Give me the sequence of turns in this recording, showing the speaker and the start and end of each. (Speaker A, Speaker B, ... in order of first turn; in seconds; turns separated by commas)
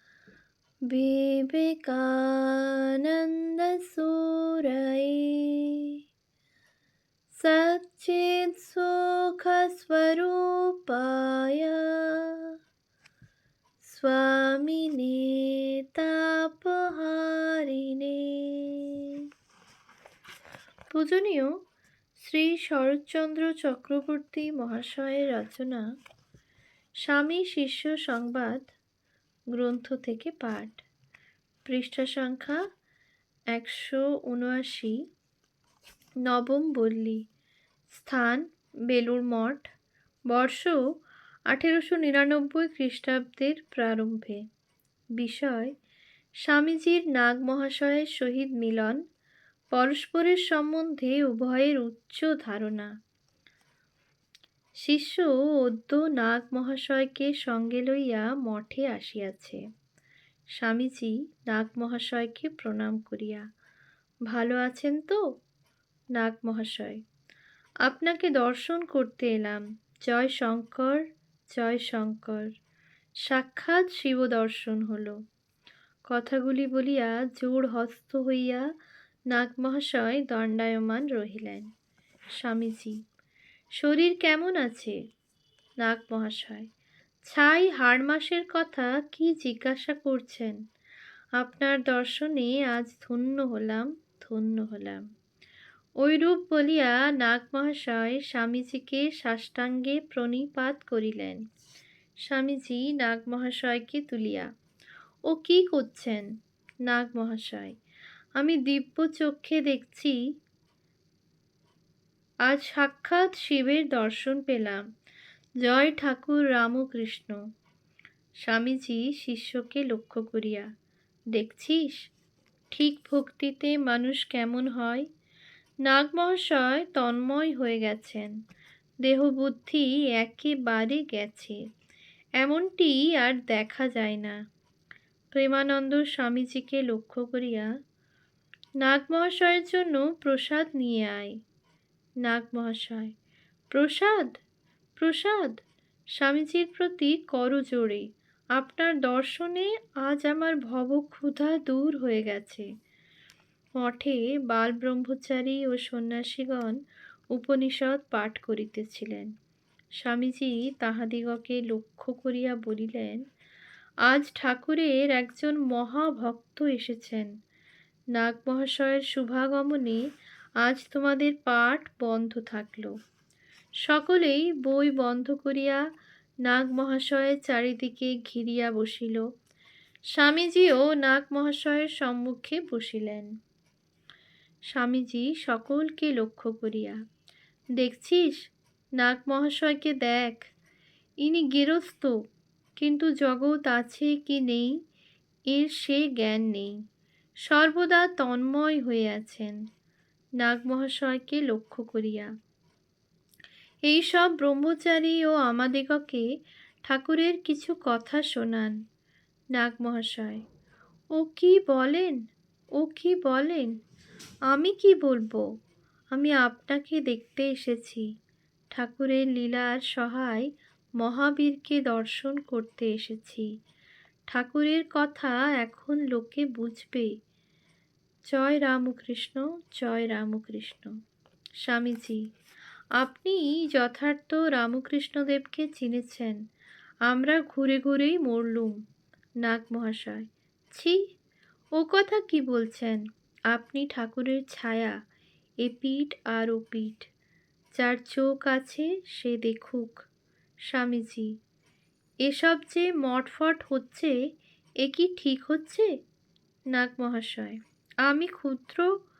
Speaker A: 0.9-6.0, Speaker A: 7.3-12.5, Speaker A: 13.8-19.2, Speaker A: 20.9-21.5, Speaker A: 22.2-25.9, Speaker A: 27.1-28.7, Speaker A: 29.5-30.9, Speaker A: 31.6-32.6, Speaker A: 33.5-35.0, Speaker A: 36.2-37.2, Speaker A: 37.9-39.7, Speaker A: 40.3-40.8, Speaker A: 41.5-44.4, Speaker A: 45.2-45.7, Speaker A: 46.4-49.0, Speaker A: 49.7-52.9, Speaker A: 54.8-59.6, Speaker A: 60.6-63.4, Speaker A: 64.3-65.2, Speaker A: 66.2-67.0, Speaker A: 67.8-71.0, Speaker A: 71.5-72.5, Speaker A: 73.2-75.2, Speaker A: 76.1-78.6, Speaker A: 79.3-81.7, Speaker A: 82.4-83.0, Speaker A: 83.8-85.0, Speaker A: 85.8-86.7, Speaker A: 87.2-90.6, Speaker A: 91.4-95.0, Speaker A: 96.0-101.4, Speaker A: 102.3-104.5, Speaker A: 105.3-106.2, Speaker A: 106.9-107.7, Speaker A: 108.4-110.2, Speaker A: 112.5-114.8, Speaker A: 115.6-117.4, Speaker A: 118.5-120.7, Speaker A: 121.3-122.1, Speaker A: 122.7-125.1, Speaker A: 125.8-128.3, Speaker A: 129.0-131.6, Speaker A: 132.4-134.3, Speaker A: 135.3-137.7, Speaker A: 138.8-141.3, Speaker A: 142.2-143.1, Speaker A: 143.7-144.3, Speaker A: 145.0-145.6, Speaker A: 146.2-152.7, Speaker A: 153.8-156.8, Speaker A: 157.3-159.3, Speaker A: 160.0-163.2, Speaker A: 164.1-167.3, Speaker A: 168.1-170.0, Speaker A: 170.6-172.9, Speaker A: 173.8-175.8, Speaker A: 176.4-179.2, Speaker A: 180.1-183.3, Speaker A: 184.7-187.0, Speaker A: 187.8-188.4, Speaker A: 189.0-190.5, Speaker A: 191.2-192.1, Speaker A: 192.8-194.7, Speaker A: 195.5-196.7, Speaker A: 197.5-199.6, Speaker A: 200.4-202.3, Speaker A: 203.9-206.2, Speaker A: 206.9-208.7, Speaker A: 209.6-210.4, Speaker A: 211.2-212.2, Speaker A: 212.8-213.7, Speaker A: 214.5-215.4, Speaker A: 216.1-218.1, Speaker A: 218.7-220.5, Speaker A: 221.0-223.5, Speaker A: 224.3-227.1, Speaker A: 228.3-230.9, Speaker A: 231.6-232.2, Speaker A: 233.0-236.4, Speaker A: 237.1-238.8, Speaker A: 239.4-241.0, Speaker A: 241.8-244.9, Speaker A: 245.6-247.1, Speaker A: 247.8-250.0, Speaker A: 250.7-251.3, Speaker A: 252.2-254.1, Speaker A: 254.8-255.9, Speaker A: 256.7-258.9